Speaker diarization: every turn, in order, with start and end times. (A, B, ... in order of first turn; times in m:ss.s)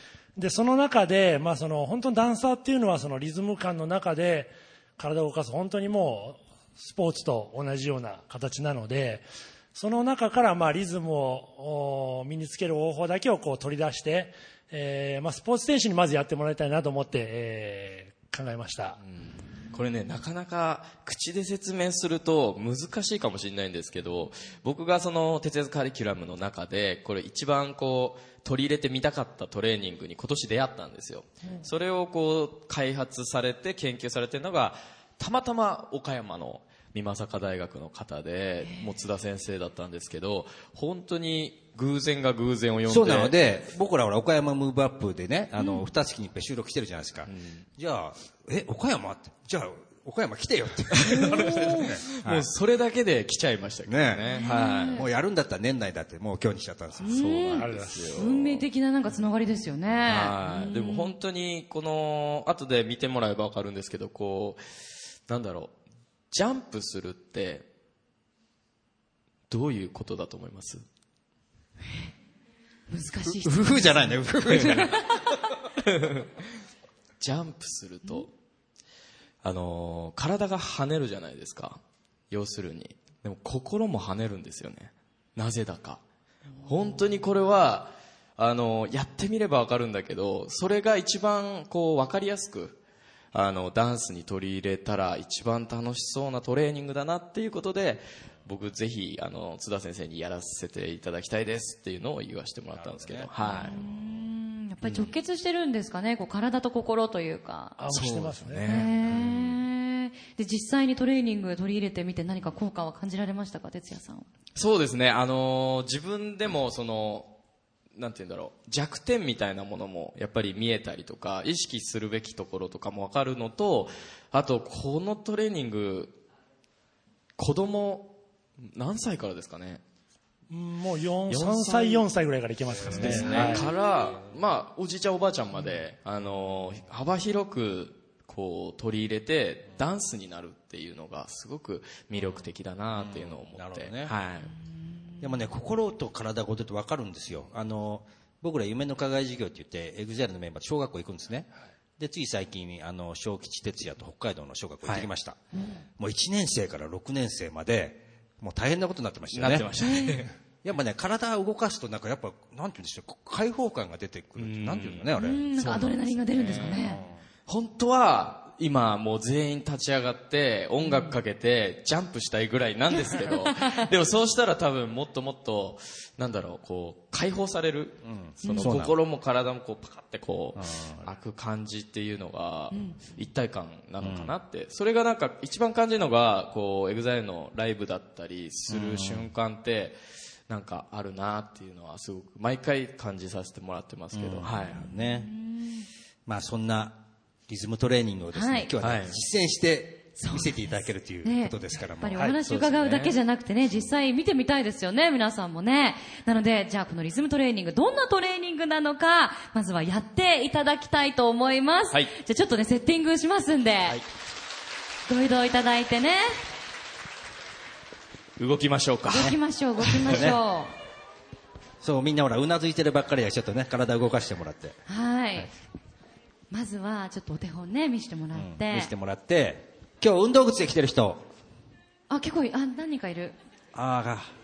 0:00.4-0:19.0 A
0:19.0-0:43.6 B
0:42.9-0:52.5 C
0:45.6-0:45.8 D
0:47.3-0:47.6 B
0:51.0-0:55.0 B
0:51.0-0:52.0 D
0:53.9-0:54.4 C
0:54.4-0:55.1 D
0:54.9-0:57.2 C
0:57.0-0:58.6 B
0:57.0-1:01.1 D
0:57.5-0:58.3 A
1:00.0-1:04.6 B
1:05.3-1:05.8 B
1:06.3-1:07.6 B
1:09.5-1:10.8 B
1:12.9-1:15.0 D
1:13.4-1:15.0 C
1:14.5-1:15.0 B
1:15.8-1:16.3 B
1:17.2-1:18.3 B
1:19.4-1:26.0 B
1:26.7-1:32.8 B
1:33.3-1:43.8 B
1:42.8-1:43.8 C
1:43.4-1:47.8 D
1:44.8-1:45.1 B
1:47.8-1:48.8 A
1:47.9-1:49.6 B
1:48.7-1:54.3 D
1:54.6-1:57.4 B
1:57.9-2:06.2 B
2:07.4-2:09.8 B
2:10.5-2:13.7 A
2:11.3-2:12.1 B
2:12.9-2:24.5 B
2:13.1-2:13.6 C
2:23.0-2:24.2 C
2:25.2-2:35.4 C
2:35.5-2:35.8 D
2:36.0-2:39.7 C
2:39.3-2:40.3 B
2:39.8-2:40.3 D
2:40.6-2:45.4 C
2:44.4-2:46.8 B
2:45.2-2:47.0 D
2:46.4-2:47.2 C
2:47.5-3:10.0 B
2:53.0-2:53.8 D
2:58.1-2:58.9 C
2:58.4-2:58.8 D
3:00.6-3:01.1 C
3:02.7-3:03.0 D
3:04.0-3:04.3 C
3:08.7-3:09.3 C
3:10.5-3:14.8 B
3:14.1-3:15.3 C
3:14.7-3:15.9 D
3:16.3-3:22.4 C
3:18.3-3:18.7 D
3:18.8-3:19.2 B
3:20.2-3:34.0 D
3:22.4-3:23.2 B
3:35.1-3:36.4 D
3:38.4-3:39.4 B
3:39.1-3:40.7 D
3:40.0-3:40.4 C
3:41.8-3:44.8 C
3:44.9-3:45.5 D
3:46.5-3:48.9 D
3:48.3-3:51.3 C
3:52.1-3:53.4 D
3:53.7-3:54.3 C